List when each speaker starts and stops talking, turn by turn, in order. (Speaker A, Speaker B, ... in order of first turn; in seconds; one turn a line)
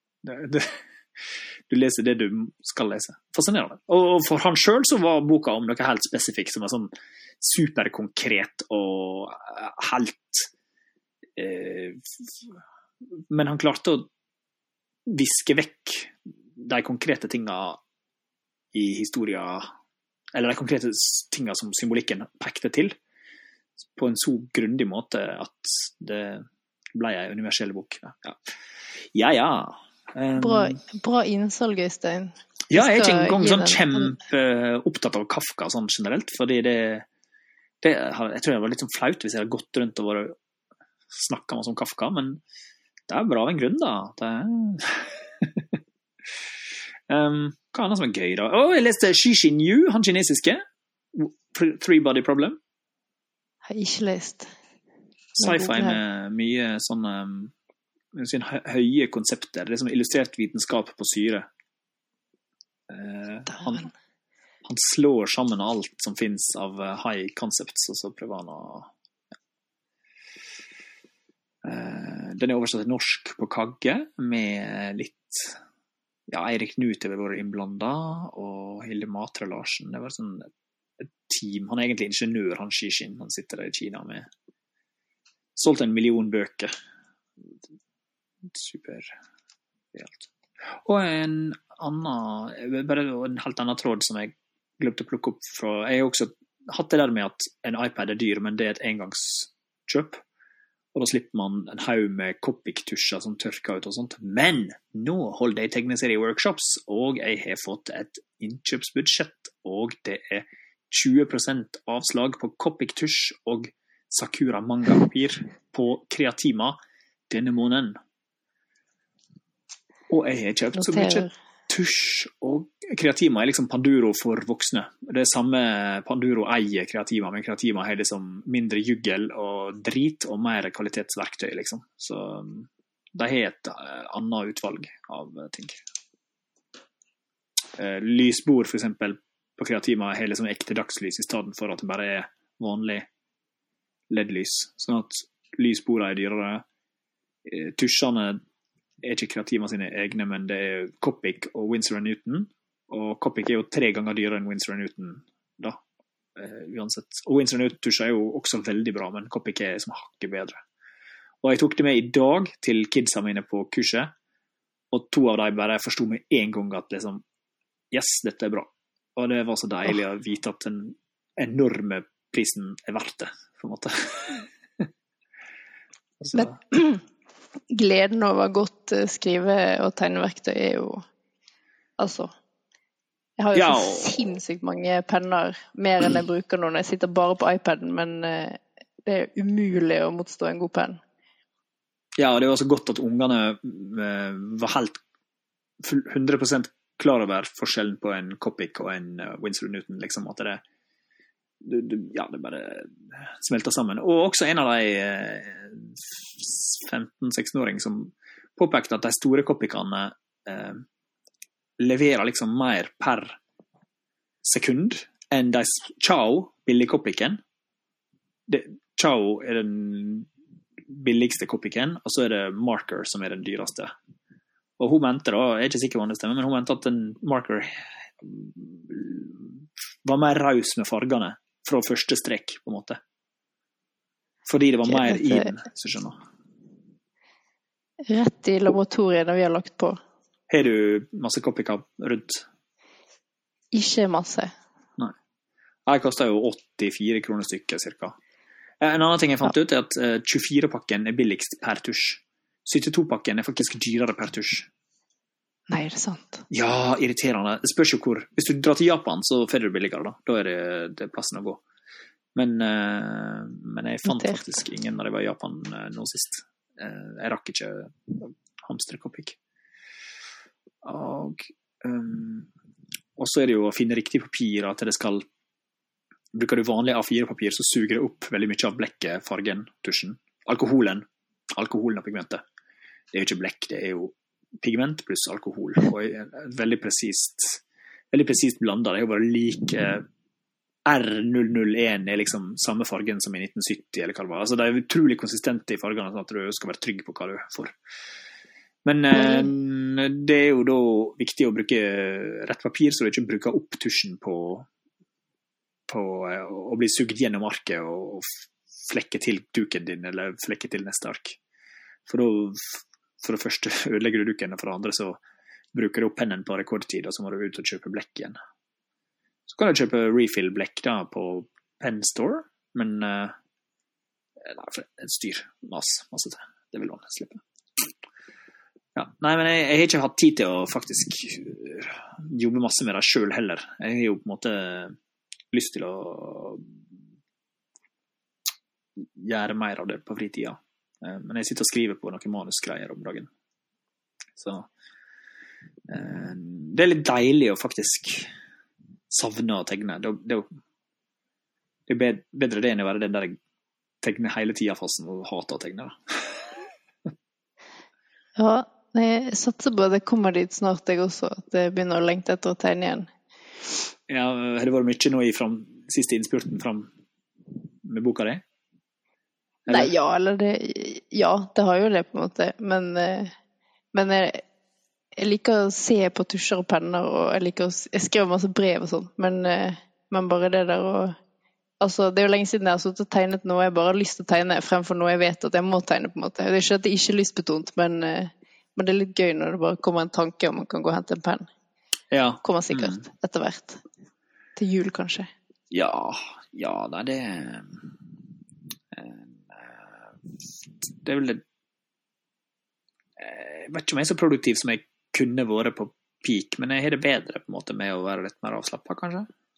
Speaker A: 0.2-10.5
Speaker A: 11.3-12.3
Speaker A: 13.3-14.1
Speaker A: 15.1-17.8
Speaker A: 18.7-19.7
Speaker A: 20.3-22.9
Speaker A: 23.8-28.4
Speaker A: 29.1-30.8
Speaker B: 30.4-34.1
Speaker A: 32.7-37.0
Speaker A: 37.8-40.3
Speaker A: 41.1-42.4
Speaker A: 43.1-45.8
Speaker A: 47.1-52.6
Speaker B: 53.6-54.5
Speaker B: 55.4-56.0
Speaker A: 55.4-57.5
Speaker A: 58.1-61.5
Speaker A: 62.9-63.9
Speaker B: 63.5-63.9
Speaker A: 64.6-68.9
Speaker A: 71.6-75.6
Speaker A: 76.3-84.3
Speaker A: 85.5-86.7
Speaker A: 88.4-89.2
Speaker A: 89.9-100.2
Speaker A: 100.9-116.8
Speaker A: 117.3-118.0
Speaker A: 120.1-135.8
Speaker B: 120.7-121.3
Speaker A: 137.8-143.1
Speaker A: 144.1-146.6
Speaker A: 147.4-148.4
Speaker A: 149.0-155.8
Speaker A: 156.3-160.6
Speaker A: 161.4-164.1
Speaker A: 164.9-167.2
Speaker A: 167.9-174.8
Speaker A: 176.2-176.6
Speaker B: 176.3-177.0
Speaker B: 177.7-181.0
Speaker B: 182.0-182.3
Speaker B: 183.4-191.0
Speaker A: 183.5-184.2
Speaker A: 192.2-195.0
Speaker A: 195.8-200.6
Speaker A: 201.6-210.8
Speaker A: 211.8-213.4
Speaker A: 214.4-217.4
Speaker A: 218.5-220.3
Speaker A: 220.9-223.9
Speaker A: 224.8-233.0
Speaker A: 234.4-236.2
Speaker B: 234.8-235.5
Speaker B: 238.1-240.0
Speaker A: 240.5-242.4
Speaker B: 243.7-244.5
Speaker A: 245.9-248.1
Speaker A: 248.8-254.7
Speaker B: 255.7-256.4
Speaker A: 256.5-261.6
Speaker A: 262.3-269.4
Speaker B: 264.0-264.4
Speaker A: 270.8-272.5
Speaker A: 273.2-275.2
Speaker A: 276.3-282.4
Speaker A: 283.1-290.0
Speaker A: 290.9-297.7
Speaker A: 298.8-304.7
Speaker B: 299.1-299.5
Speaker A: 305.9-311.4
Speaker A: 312.1-315.2
Speaker A: 315.7-318.4
Speaker A: 319.5-323.3
Speaker A: 324.4-327.9
Speaker A: 328.9-334.9
Speaker A: 335.5-336.8
Speaker A: 339.0-343.3
Speaker A: 344.4-344.7
Speaker A: 345.9-348.3
Speaker A: 349.1-350.5
Speaker A: 351.9-353.4
Speaker A: 354.0-356.5
Speaker B: 358.4-363.1
Speaker A: 364.1-366.9
Speaker A: 367.8-368.4
Speaker A: 369.6-369.9
Speaker B: 369.7-373.3
Speaker B: 373.9-374.4
Speaker B: 375.2-381.1
Speaker B: 381.8-391.5
Speaker A: 392.1-393.0
Speaker B: 392.4-393.8
Speaker B: 394.6-395.3
Speaker A: 395.7-397.9
Speaker A: 398.9-400.1
Speaker A: 400.9-401.4
Speaker A: 403.2-409.3